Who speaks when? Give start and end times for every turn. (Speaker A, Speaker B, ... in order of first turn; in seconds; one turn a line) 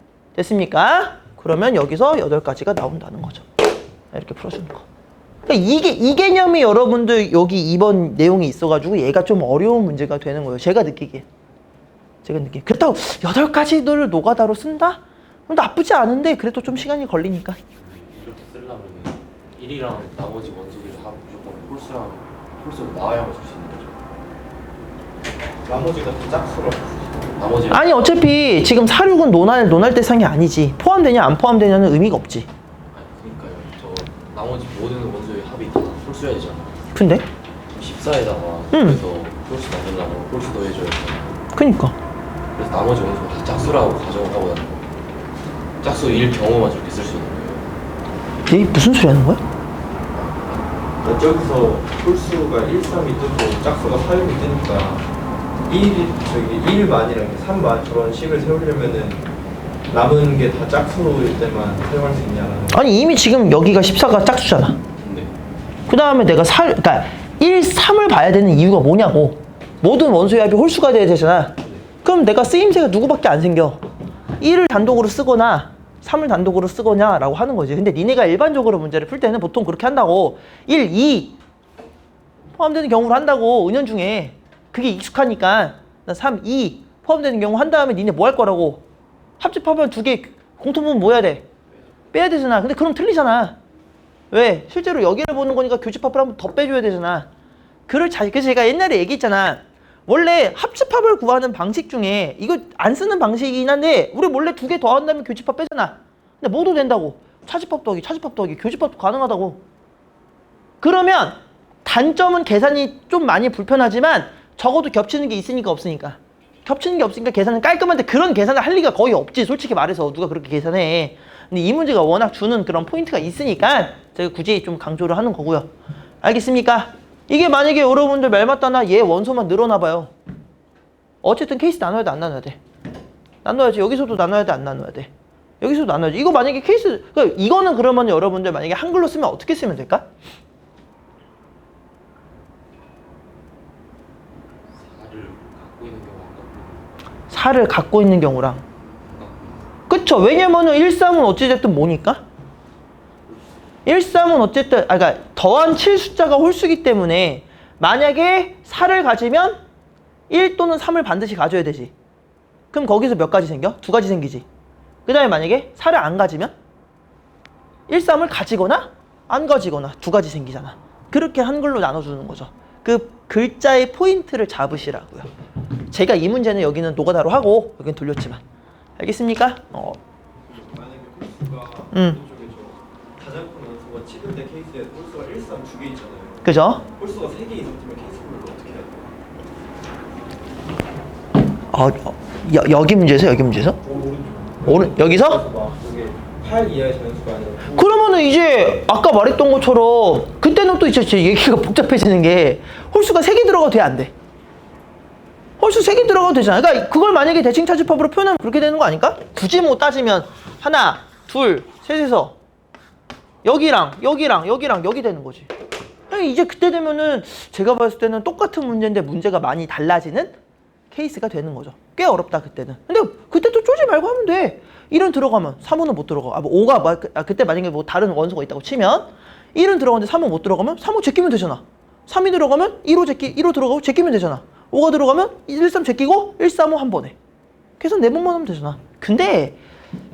Speaker A: 0.3-3.5
Speaker A: 4.1-4.8
Speaker A: 5.5-11.2
Speaker A: 12.2-17.6
Speaker B: 17.8-24.0
Speaker C: 25.6-27.3
Speaker B: 27.4-27.9
Speaker A: 27.7-32.5
Speaker B: 32.9-36.8
Speaker A: 36.9-37.3
Speaker B: 37.7-41.4
Speaker A: 38.7-39.0
Speaker A: 41.5-42.0
Speaker B: 42.5-44.9
Speaker B: 45.8-47.7
Speaker A: 48.5-49.4
Speaker B: 50.1-50.6
Speaker C: 51.0-55.0
Speaker C: 55.7-59.2
Speaker C: 59.9-62.8
Speaker A: 62.7-64.8
Speaker B: 65.0-65.3
Speaker A: 65.9-73.8
Speaker A: 74.4-81.4
Speaker A: 82.5-88.8
Speaker A: 89.4-91.5
Speaker A: 92.1-93.6
Speaker A: 94.3-97.3
Speaker A: 97.9-109.6
Speaker A: 110.8-125.7
Speaker A: 126.2-130.1
Speaker A: 131.2-132.6
Speaker A: 133.4-140.1
Speaker B: 144.7-147.1
Speaker A: 147.3-148.6
Speaker B: 149.0-149.6
Speaker A: 149.9-152.2
Speaker A: 153.9-159.6
Speaker A: 160.3-161.9
Speaker A: 162.7-164.4
Speaker A: 165.1-166.5
Speaker A: 167.9-175.3
Speaker A: 175.9-178.4
Speaker A: 179.0-180.0
Speaker C: 180.5-189.1
Speaker A: 181.9-182.2
Speaker A: 186.4-186.8
Speaker A: 191.7-193.8
Speaker C: 193.9-198.0
Speaker A: 194.6-195.4
Speaker A: 197.7-204.1
Speaker A: 205.6-212.4
Speaker A: 213.4-215.5
Speaker A: 216.1-220.3
Speaker A: 220.9-237.2
Speaker A: 237.8-239.6